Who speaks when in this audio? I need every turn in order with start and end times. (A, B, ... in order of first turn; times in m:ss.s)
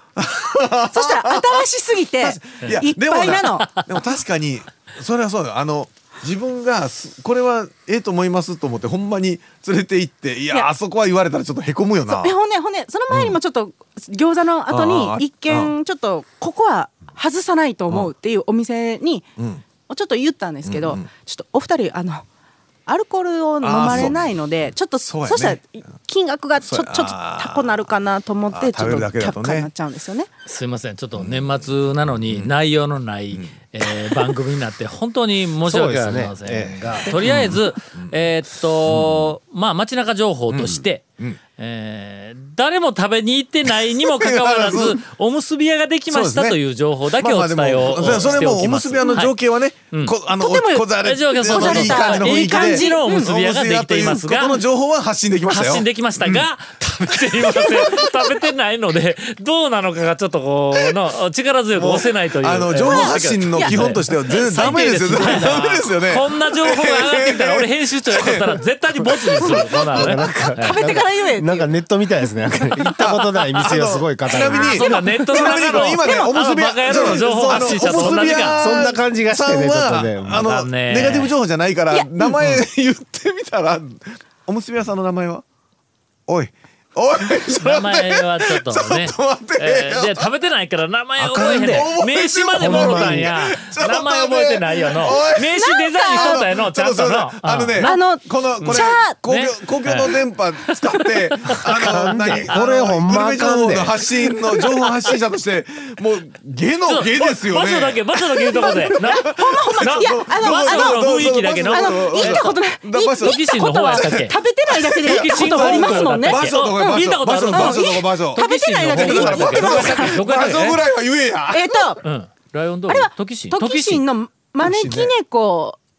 0:00.2-0:01.6 A
0:00.9-0:03.8 B
0:02.2-0:12.3 A
0:03.3-0:03.8 C
0:12.1-0:19.3 B
0:13.1-0:13.4 A
0:14.7-0:15.7 A
0:19.4-0:19.6 A
0:19.9-0:22.2 B
0:20.6-0:21.0 A
0:22.9-0:30.3 B
0:23.6-0:24.2 A
0:25.1-0:25.6 A
0:26.6-0:27.9 A
0:28.5-0:29.7 A
0:30.4-0:41.0 C
0:31.2-0:31.7 A
0:32.2-0:32.5 A
0:33.3-0:34.4 A
0:35.6-0:37.2 D
0:37.1-0:38.2 A
0:38.8-0:39.3 A
0:40.5-0:41.4 A
0:41.6-0:49.3 C
0:43.6-0:45.0 A
0:46.1-0:56.4 A
0:50.4-0:53.3 B
0:50.9-0:54.6 C
0:55.5-1:10.8 C
0:57.0-0:58.3 A
1:01.7-1:09.8 A
1:02.9-1:05.5 B
1:09.4-1:15.0 D
1:10.1-1:11.7 B
1:13.0-1:25.4 A
1:14.4-1:18.7 C
1:15.0-1:16.3 B
1:17.9-1:20.4 D
1:20.3-1:21.3 C
1:26.3-1:30.3 A
1:27.5-1:38.0 C
1:31.2-2:01.9 A
1:32.6-1:33.3 D
1:35.0-1:36.5 B
1:37.8-1:39.2 B
1:38.6-1:40.2 C
1:40.7-1:42.4 C
1:41.8-1:43.9 D
1:46.8-1:52.6 C
1:48.5-1:51.1 B
1:51.6-1:57.0 B
1:53.2-1:54.4 C
1:55.0-2:00.8 C
1:57.5-2:00.6 B
2:01.5-2:02.0 B
2:02.0-2:04.0 C
2:02.9-2:05.8 B
2:04.6-2:05.1 A